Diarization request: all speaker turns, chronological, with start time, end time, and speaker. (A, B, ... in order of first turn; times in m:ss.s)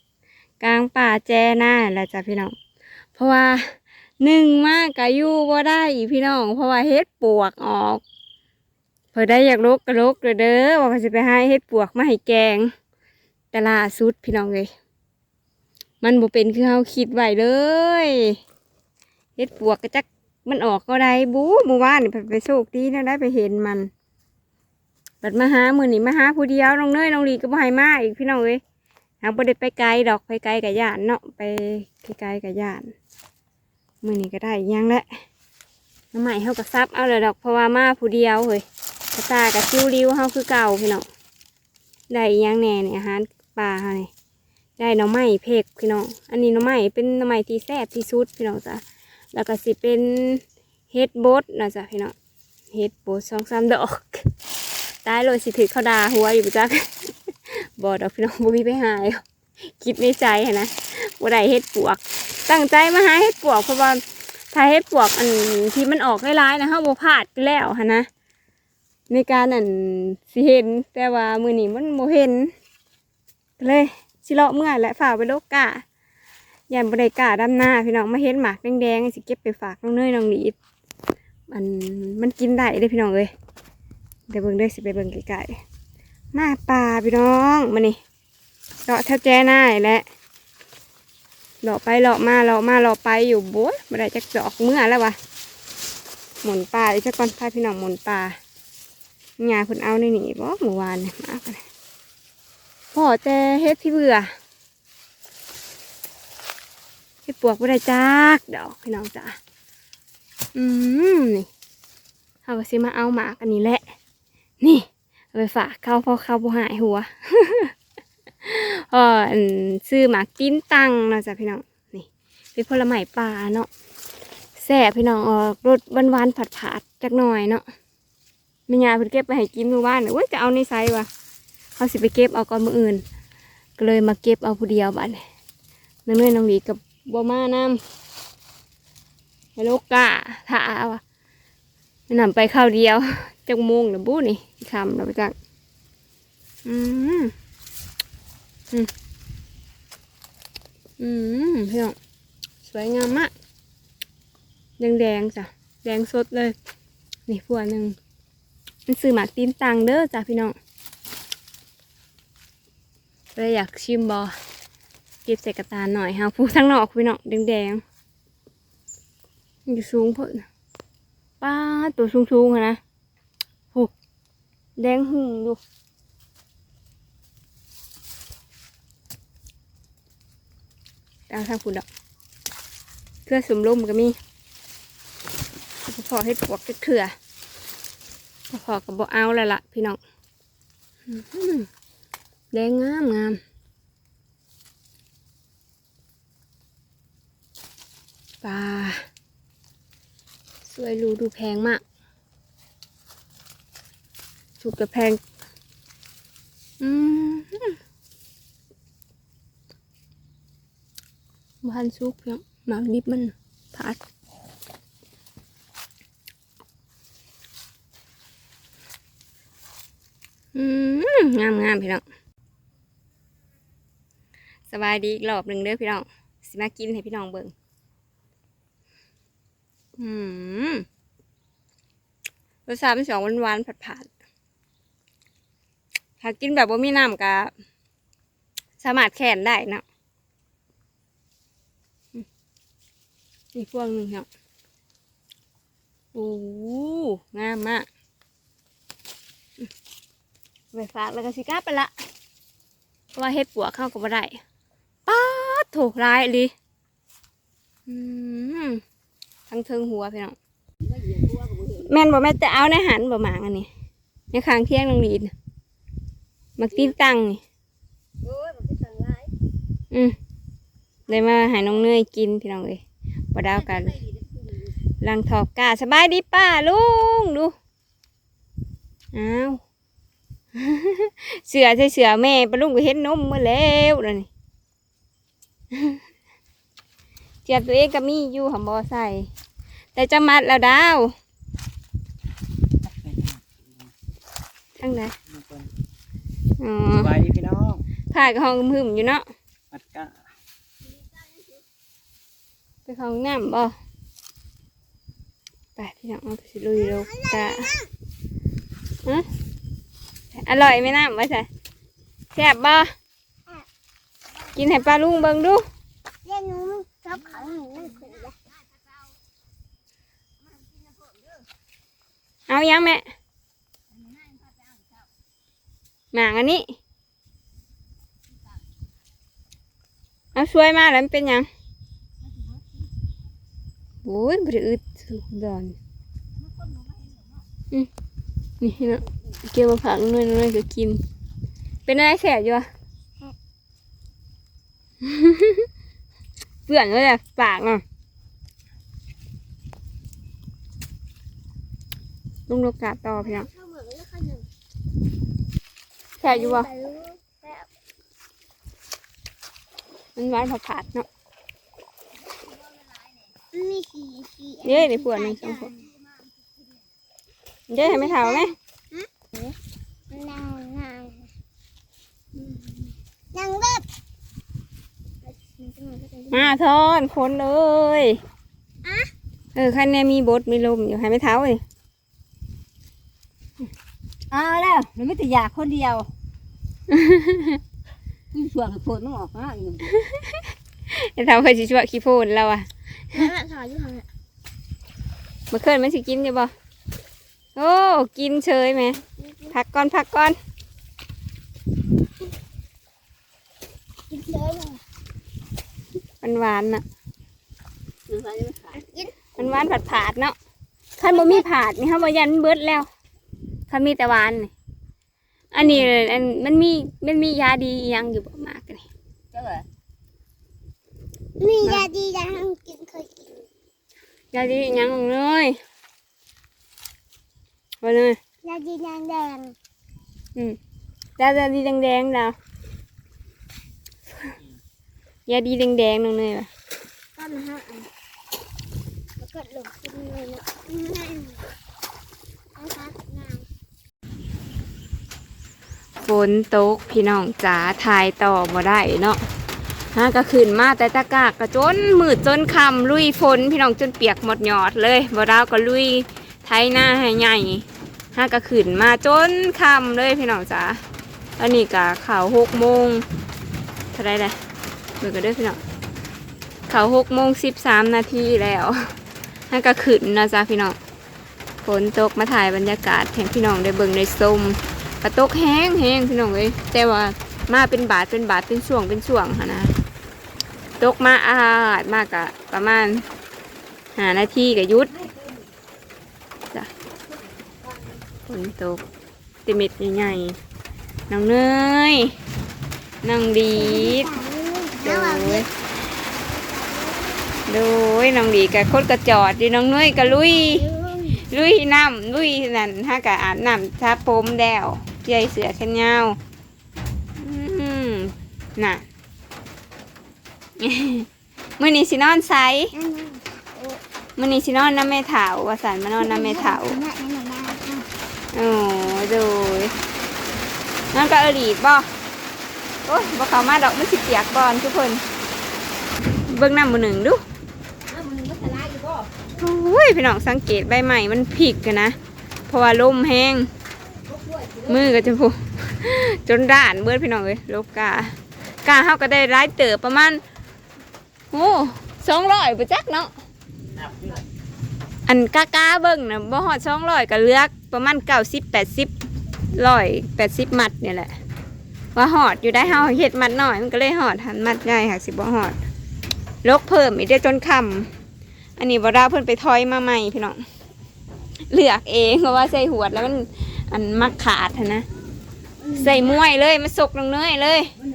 0:00.6-0:02.5 A
0:03.2-0:08.0 A
0:09.1-0:12.7 A
0:13.5-0:14.7 A
0:16.0-0:18.4 A
0:19.4-0:23.9 A
0:25.2-0:28.6 A
0:29.2-0:32.9 A
0:34.0-0:35.1 A
0:36.1-0:38.6 A
0:39.2-0:41.1 A
0:42.1-0:44.1 A
0:44.8-0:48.8 A
0:49.3-0:52.2 A
0:52.7-0:54.3 A
0:55.0-0:59.2 A
0:59.8-1:08.1 A
1:09.1-1:12.5 A
1:13.6-1:15.8 A
1:16.7-1:20.6 A
1:21.5-1:23.3 A
1:24.3-1:25.6 A
1:26.3-1:28.0 A
1:28.9-1:30.0 A
1:31.6-1:35.2 A
1:36.4-1:38.4 A
1:39.4-1:41.6 A
1:42.9-1:44.3 A
1:47.3-1:49.4 A
1:50.6-1:51.5 A
1:52.5-1:53.8 A
1:54.6-1:57.7 A
1:58.4-2:03.7 A
2:04.6-2:07.6 A
2:08.7-2:11.1 A
2:11.8-2:13.0 A
2:13.8-2:15.2 A
2:16.1-2:17.8 A
2:19.6-2:21.0 A
2:22.1-2:25.4 A
2:26.6-2:27.3 A
2:31.0-2:32.0 A
2:32.6-2:33.3 A
2:34.8-2:36.6 A
2:37.3-2:38.0 A
2:38.9-2:40.6 A
2:43.4-2:44.4 A
2:45.3-2:47.8 A
2:49.7-2:50.5 A
2:51.4-2:52.8 A
2:54.8-2:55.6 A
3:01.3-3:01.9 A
3:03.3-3:04.2 A
3:05.9-3:07.1 A
3:08.5-3:10.0 A
3:11.1-3:11.7 A
3:12.5-3:13.4 A
3:18.4-3:19.1 A
3:20.6-3:21.8 A
3:24.6-3:25.2 A
3:26.8-3:27.8 A
3:31.6-3:34.0 A
3:40.6-3:42.0 A
3:44.7-3:47.5 A
3:50.0-3:50.9 A
3:52.7-3:54.1 A
3:56.2-3:57.5 A
3:58.8-3:59.8 A
4:03.5-4:04.3 A
4:06.1-4:07.9 A
4:10.7-4:11.9 A
4:13.1-4:14.4 A
4:15.1-4:16.5 A
4:17.9-4:18.8 A
4:19.5-4:20.4 A
4:20.9-4:21.9 B
4:21.8-4:23.7 A
4:24.3-4:25.3 A
4:26.6-4:27.4 A
4:28.2-4:29.3 B
4:31.1-4:32.8 A
4:31.2-4:31.7 B
4:33.3-4:34.0 A
4:33.5-4:34.5 B
4:35.0-4:37.5 A
4:39.1-4:39.6 A
4:40.6-4:44.3 A
4:45.7-4:46.0 A
4:47.4-4:49.3 A
4:50.0-4:51.1 A
4:53.0-4:53.4 C
4:54.8-4:55.2 A
4:55.3-4:55.7 C
4:56.6-4:57.1 A
4:56.9-4:57.8 C
4:58.1-4:59.3 A
4:59.7-5:00.2 C
5:02.9-5:03.8 A
5:05.8-5:07.7 A
5:06.9-5:07.9 D
5:10.4-5:11.5 A
5:12.3-5:12.9 A
5:14.5-5:15.6 A
5:16.2-5:18.4 D
5:22.5-5:23.0 A
5:26.1-5:26.7 A
5:30.4-5:31.5 A
5:34.0-5:35.8 A
5:38.6-5:41.0 A
5:41.9-5:42.7 A
5:45.0-5:45.7 A
5:46.7-5:47.8 A
5:52.5-5:53.5 A
5:53.3-5:54.5 D
5:56.2-5:56.7 A
5:56.2-5:57.7 D
6:00.2-6:01.1 A
6:03.5-6:05.9 D
6:04.6-6:05.7 A
6:07.7-6:08.5 A
6:07.8-6:09.6 D
6:10.1-6:11.3 D
6:12.4-6:13.8 D
6:15.2-6:16.5 D
6:16.3-6:18.2 A
6:18.8-6:19.1 D
6:19.6-6:21.6 A
6:24.3-6:26.1 B
6:26.9-6:27.6 A
6:28.3-6:29.9 B
6:29.9-6:33.3 A
6:33.1-6:34.1 D
6:35.5-6:36.5 A
6:37.6-6:39.0 A
6:39.2-6:39.5 D
6:39.5-6:40.4 A
6:44.1-6:44.8 D
6:46.2-6:46.8 A
6:48.1-6:48.8 B
6:48.8-6:49.1 D
6:49.4-6:50.4 A
6:51.0-6:52.9 A
6:51.0-6:51.4 D
6:53.7-6:54.5 A
6:55.5-6:58.8 A
6:59.3-6:59.7 B
7:01.4-7:03.5 D
7:04.3-7:05.6 A
7:07.8-7:08.2 A
7:08.4-7:09.6 D
7:11.2-7:12.4 A
7:15.3-7:16.5 A
7:17.2-7:17.9 D
7:19.2-7:21.4 D
7:22.6-7:23.5 D
7:26.0-7:29.2 A
7:29.9-7:40.8 A
7:41.4-7:43.0 A
7:43.9-7:44.4 A
7:45.0-7:45.6 A
7:46.7-7:48.9 A
7:49.5-7:50.8 A
7:51.6-7:59.7 A
8:00.8-8:03.0 A
8:04.0-8:04.9 A
8:08.3-8:08.8 A
8:09.4-8:10.4 A
8:11.1-8:12.2 A
8:13.0-8:14.1 A
8:13.6-8:15.5 D
8:14.8-8:15.5 A
8:16.2-8:17.4 D
8:17.5-8:26.2 A
8:20.0-8:21.2 D
8:27.2-8:28.8 A
8:30.6-8:31.1 A
8:31.6-8:32.7 A
8:32.7-8:33.8 D
8:34.2-8:36.8 A
8:36.0-8:37.9 D
8:38.3-8:39.7 A
8:40.9-8:41.9 A
8:42.9-8:45.0 A
8:46.3-8:47.2 A
8:47.8-8:49.1 B
8:49.4-8:52.0 A
8:52.5-8:53.5 A
8:54.1-8:54.9 B
8:54.7-9:00.2 A
9:01.3-9:03.1 A
9:05.1-9:08.9 A
9:09.5-9:11.1 A
9:12.0-9:15.6 A
9:16.4-9:17.9 A
9:18.6-9:20.4 A
9:21.5-9:24.8 A
9:25.7-9:27.7 A